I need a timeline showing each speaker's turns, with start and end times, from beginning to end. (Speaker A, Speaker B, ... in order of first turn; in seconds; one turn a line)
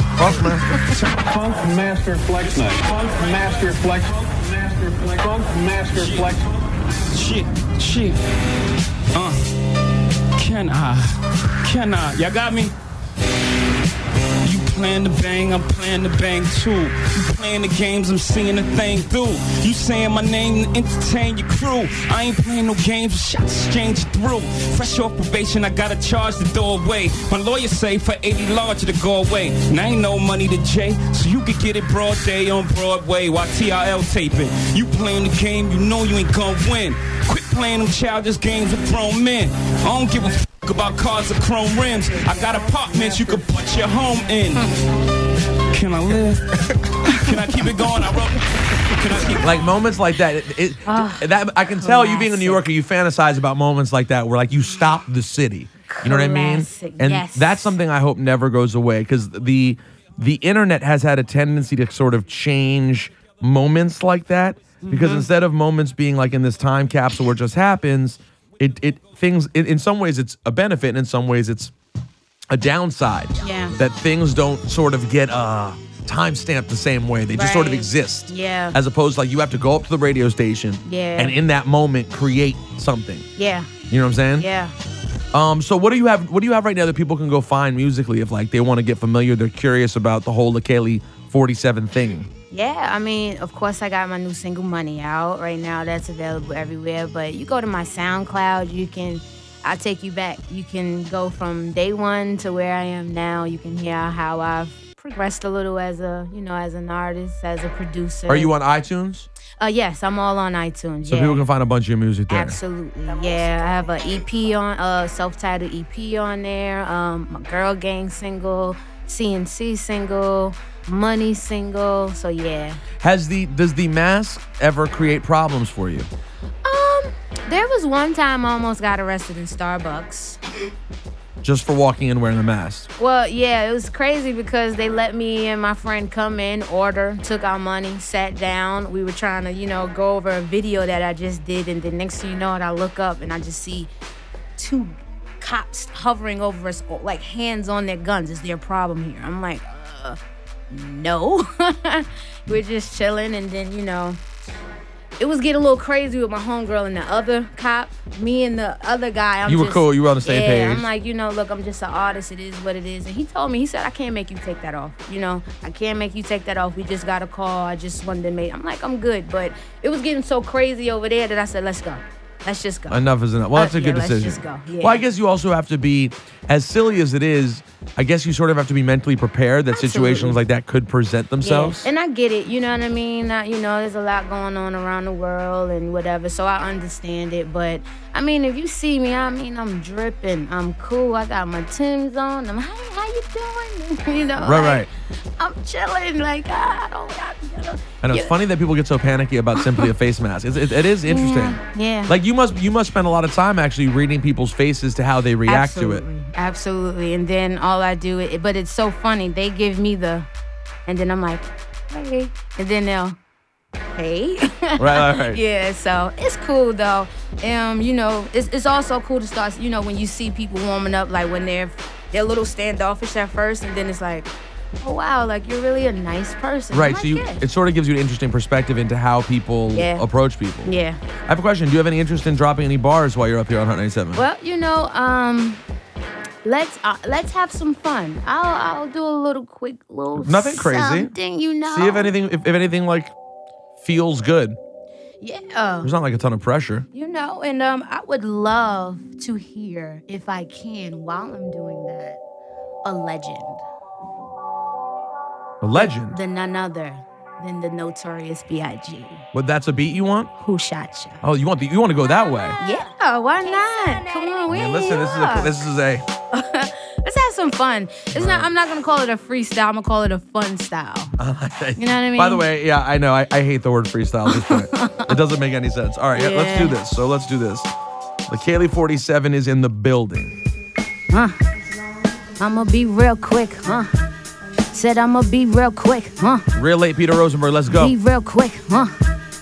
Speaker A: 0.2-0.8
Speaker B: 0.3-1.2
Speaker C: 0.9-6.5
Speaker B: 2.5-4.1
Speaker B: 5.9-6.4
Speaker B: 7.1-8.2
Speaker B: 9.1-9.5
Speaker B: 10.4-12.8
Speaker B: 14.4-44.9
Speaker B: 45.6-49.7
Speaker D: 47.1-47.5
Speaker A: 49.4-71.7
Speaker D: 50.9-52.6
Speaker D: 55.9-57.8
Speaker D: 64.8-65.3
Speaker A: 72.5-83.3
Speaker D: 73.4-73.8
Speaker D: 77.3-78.8
Speaker D: 80.8-81.4
Speaker D: 83.4-83.7
Speaker A: 83.9-84.5
Speaker D: 84.4-84.8
Speaker A: 85.3-92.3
Speaker D: 92.5-108.5
Speaker A: 108.3-109.3
Speaker D: 109.6-111.5
Speaker A: 111.1-112.6
Speaker D: 112.3-122.8
Speaker A: 123.0-126.1
Speaker D: 126.6-130.4
Speaker A: 131.4-132.9
Speaker D: 133.0-143.9
Speaker D: 144.6-150.2
Speaker D: 150.7-154.2
Speaker D: 155.2-175.0
Speaker A: 159.5-160.9
Speaker A: 172.9-181.9
Speaker D: 179.7-180.4
Speaker D: 181.4-198.3
Speaker A: 194.4-194.9
Speaker A: 198.0-206.0
Speaker D: 199.6-199.9
Speaker D: 201.0-202.2
Speaker D: 205.4-210.3
Speaker D: 210.9-213.2
Speaker D: 214.0-227.4
Speaker A: 214.8-215.4
Speaker A: 226.7-234.2
Speaker D: 229.7-230.1
Speaker D: 230.6-231.0
Speaker D: 234.2-235.6
Speaker D: 236.4-242.2
Speaker A: 240.2-241.1
Speaker A: 241.7-243.1
Speaker A: 243.8-244.6
Speaker D: 245.2-245.9
Speaker A: 245.8-246.9
Speaker D: 246.9-252.2
Speaker D: 252.8-253.7
Speaker A: 255.6-256.2
Speaker D: 255.8-259.2
Speaker A: 259.3-260.3
Speaker D: 260.4-261.2
Speaker A: 261.2-262.6
Speaker D: 262.6-265.6
Speaker A: 264.5-266.1
Speaker D: 266.3-271.2
Speaker A: 268.1-268.5
Speaker A: 271.2-277.7
Speaker D: 271.8-272.5
Speaker D: 274.3-275.2
Speaker D: 276.1-276.8
Speaker A: 278.3-280.4
Speaker D: 281.1-281.4
Speaker D: 282.4-283.9
Speaker D: 284.7-286.5
Speaker A: 286.5-287.9
Speaker D: 287.7-289.0